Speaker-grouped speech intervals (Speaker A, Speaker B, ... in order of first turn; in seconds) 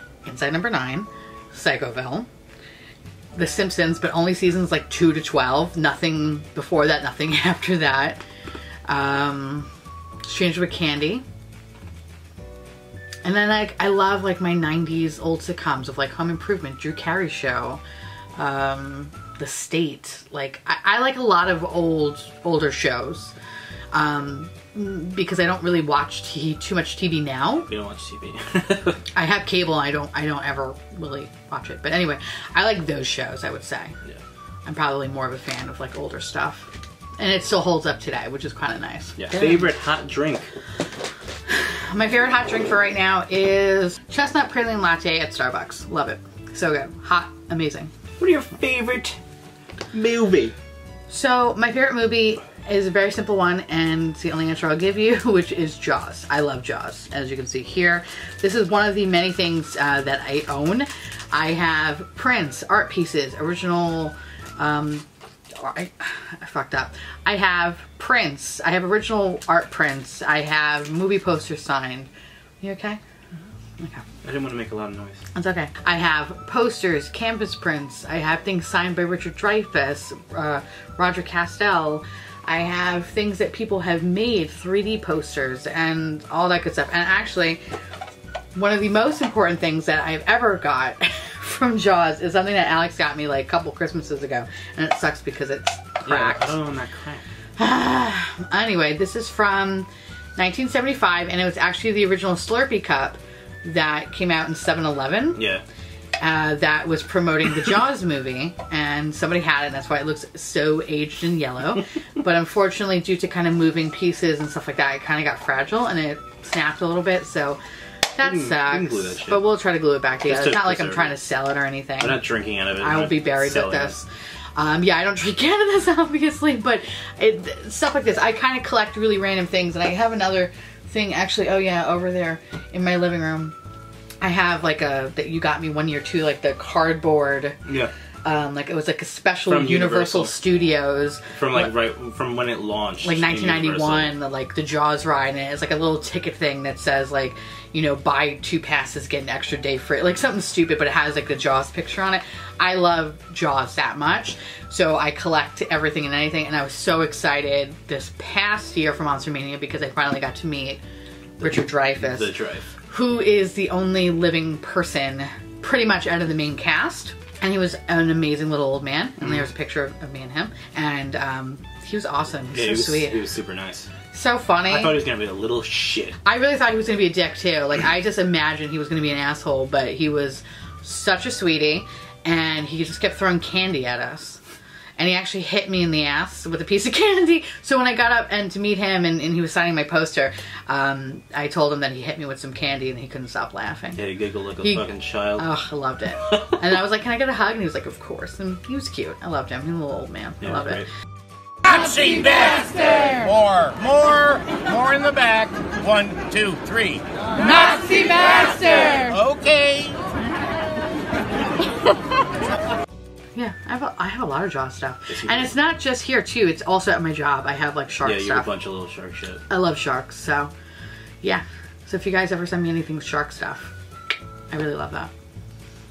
Speaker A: 0.2-2.3, 3.4-8.2, 8.9-9.7, 10.2-11.2, 13.2-17.8, 18.4-23.3, 23.9-27.7, 29.1-34.0, 34.7-39.7, 41.5-47.9, 51.1-72.1, 72.6-73.0, 73.8-74.0, 75.3-87.6, 88.5-96.6, 97.6-105.4, 106.2-117.6, 118.1-122.2, 122.8-133.6, 134.2-137.6, 138.2-141.7, 143.0-160.8, 161.4-162.3, 162.9-173.2, 174.1-175.0, 176.2-184.4, 185.0-194.0, 194.6-200.9, 207.6-208.9, 213.4-218.5, 219.5-220.5, 221.2-223.8, 224.5-225.1
Speaker B: 27.7-29.0, 39.2-40.5, 48.2-49.2, 49.9-50.5, 74.2-75.2, 96.0-97.2, 105.4-105.6, 118.2-119.4, 120.3-121.2, 122.0-124.0, 137.7-137.9, 139.5-140.3, 141.3-144.2, 161.4-162.7, 172.5-173.9, 174.7-176.2, 193.9-195.5, 200.4-200.9, 215.1-215.5, 218.0-219.4
Speaker C: 203.3-207.0, 209.2-209.9